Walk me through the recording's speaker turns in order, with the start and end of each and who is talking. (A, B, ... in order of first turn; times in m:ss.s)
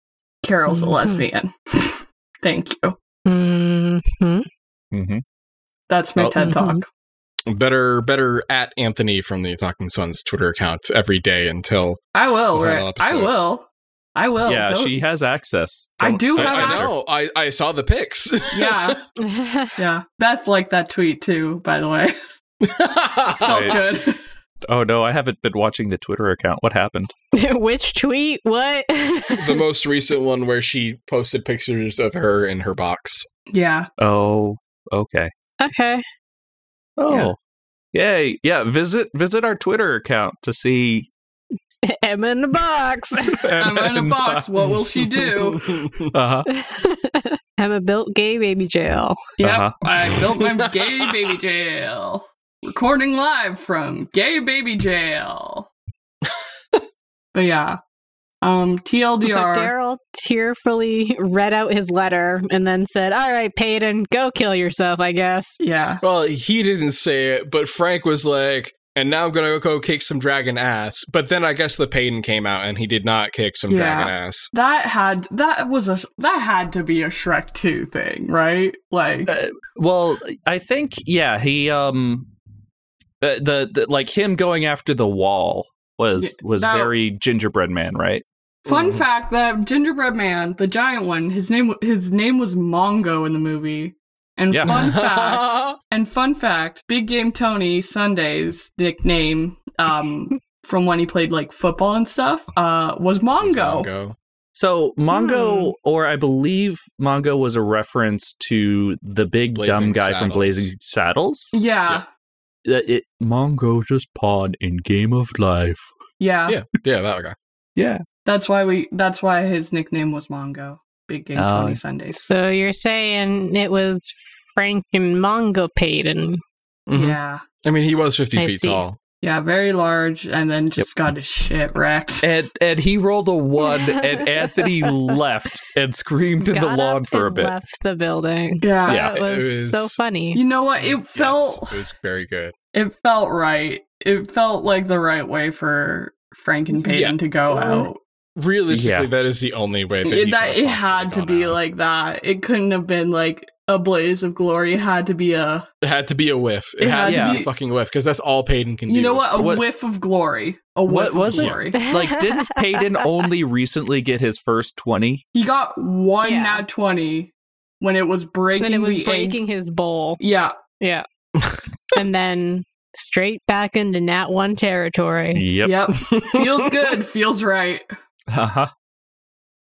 0:00.4-0:03.0 A
0:00.7-0:01.2 B
0:03.2-0:04.4 B
0:04.9-0:05.2 C
0:05.9-0:06.8 A
0:06.2-0:06.5 D
0:06.4-0:06.8 B
0:07.5-0:12.0 D
0:12.1-0:15.0 A
0:12.5-0:13.3 D
0:14.4-0:16.9 C
0:16.0-0:16.9 A
0:16.3-0:19.0 D
0:18.5-0:19.0 A
0:19.2-0:19.7 B
0:19.8-0:22.1 A
0:22.6-0:23.9 D
0:23.3-0:24.2 A
0:23.4-0:23.8 C
0:24.6-0:27.1 C
0:27.3-0:29.6 B
0:29.4-0:33.3 D
0:33.5-0:33.9 A
0:34.0-0:35.3 C
0:35.6-0:36.0 B
0:37.0-0:37.4 C
0:37.9-0:41.1 C
0:41.8-0:43.5 B
0:43.4-0:44.5 C
0:43.6-0:45.7 A
0:45.2-0:46.1 D
0:46.1-0:46.5 C
0:46.5-0:49.2 B
0:49.4-0:55.7 A
0:49.4-0:49.8 C
0:50.3-0:50.8 D
0:57.3-0:57.8 A
0:58.4-0:59.7 A
0:59.2-1:05.6 B
1:05.6-1:06.0 A
1:06.0-1:14.5 D
1:13.7-1:19.3 A
1:19.3-1:22.3 C
1:23.2-1:28.2 C
1:26.2-1:26.9 A
1:28.6-1:29.0 D
1:28.6-1:43.9 A
1:34.5-1:34.8 C
1:34.6-1:35.8 D
1:43.4-1:44.1 D
1:44.5-1:51.6 C
1:45.1-1:45.7 B
1:49.5-1:50.7 D
1:51.5-1:52.0 A
1:52.6-1:55.9 C
1:56.2-1:56.6 A
1:56.5-1:57.3 D
1:57.8-1:58.0 C
1:58.2-2:02.3 A
2:01.3-2:01.8 C
2:02.1-2:06.4 B
2:06.9-2:09.0 D
2:06.9-2:07.4 A
2:08.4-2:08.8 B
2:09.2-2:12.3 A
2:12.2-2:17.5 C
2:13.7-2:14.9 B
2:16.5-2:20.4 B
2:18.6-2:19.1 A
2:18.9-2:19.1 C
2:19.1-2:20.0 D
2:20.3-2:21.8 A
2:20.8-2:22.5 D
2:22.7-2:28.0 A
2:26.8-2:31.6 D
2:28.7-2:29.1 C
2:30.0-2:35.7 A
2:35.8-2:39.5 D
2:36.8-2:37.5 A
2:37.0-2:37.4 C
2:38.9-2:41.8 A
2:39.4-2:39.6 C
2:40.8-2:45.2 C
2:41.3-2:41.6 D
2:41.7-2:42.8 B
2:45.3-2:49.4 A
2:46.2-2:46.6 B
2:48.6-2:50.2 B
2:50.2-2:50.6 A
2:51.9-2:55.4 B
2:55.3-2:55.9 C
2:55.6-2:57.9 A
2:56.0-2:56.6 D
2:58.3-2:58.7 C